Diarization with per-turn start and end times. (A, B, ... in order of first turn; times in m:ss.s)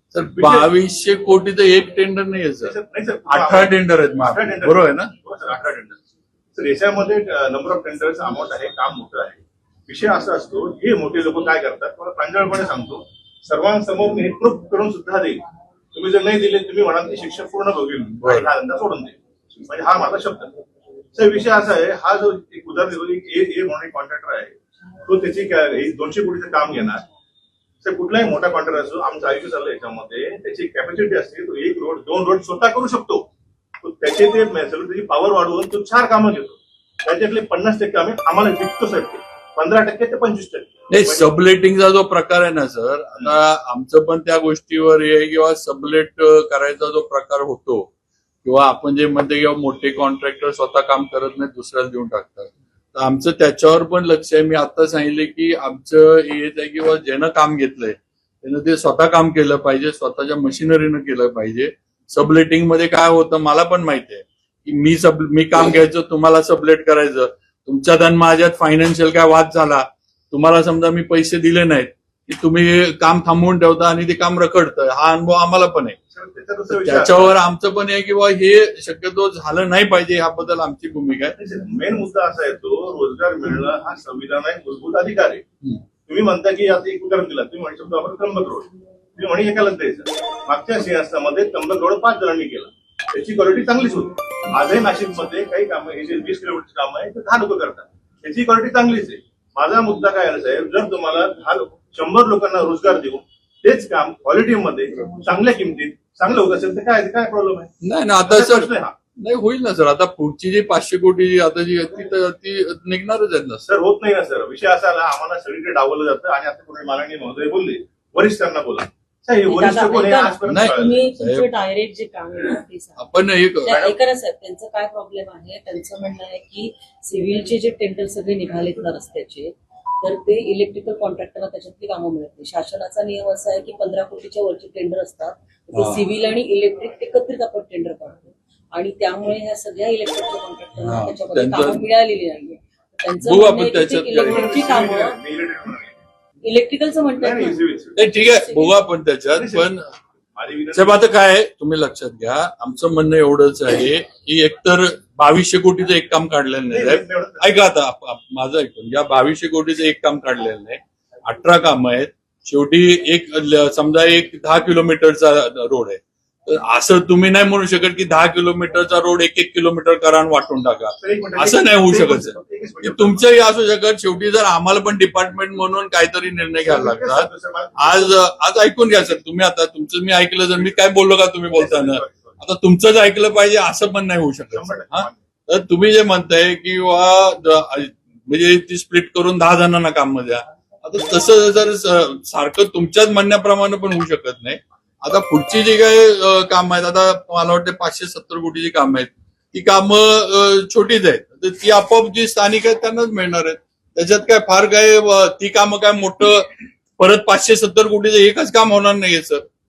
0:00.1-0:02.8 A
0:00.4-0:00.7 B
0:02.6-0:06.0 B
0:03.3-0:05.1 A
0:06.5-0:15.4 B
0:15.9-0:20.5 B
0:18.2-0:18.5 A
0:21.1-0:27.0 B
0:27.8-0:33.2 B
0:33.8-0:41.3 B
0:40.9-0:47.9 A
0:48.4-1:16.0 A
1:16.1-1:17.4 B
1:16.7-1:21.4 A
1:21.4-1:25.4 B
1:26.0-1:47.7 B
1:47.8-1:53.7 A
1:48.2-1:48.9 B
1:53.7-2:01.0 B
1:59.4-2:09.5 C
2:00.5-2:01.4 A
2:03.0-2:03.7 A
2:03.7-2:04.0 B
2:10.0-2:25.2 C
2:15.7-2:16.0 A
2:20.8-2:21.8 A
2:23.2-2:24.5 A
2:24.1-2:26.0 B
2:26.4-2:28.8 C
2:27.2-2:28.0 B
2:28.0-2:29.8 A
2:29.3-2:29.7 B
2:30.3-2:31.1 B
2:30.7-3:29.4 A
2:36.7-2:37.5 B
2:51.0-2:53.3 B
2:56.6-2:58.2 B
3:01.5-3:02.4 B
3:04.5-3:05.2 B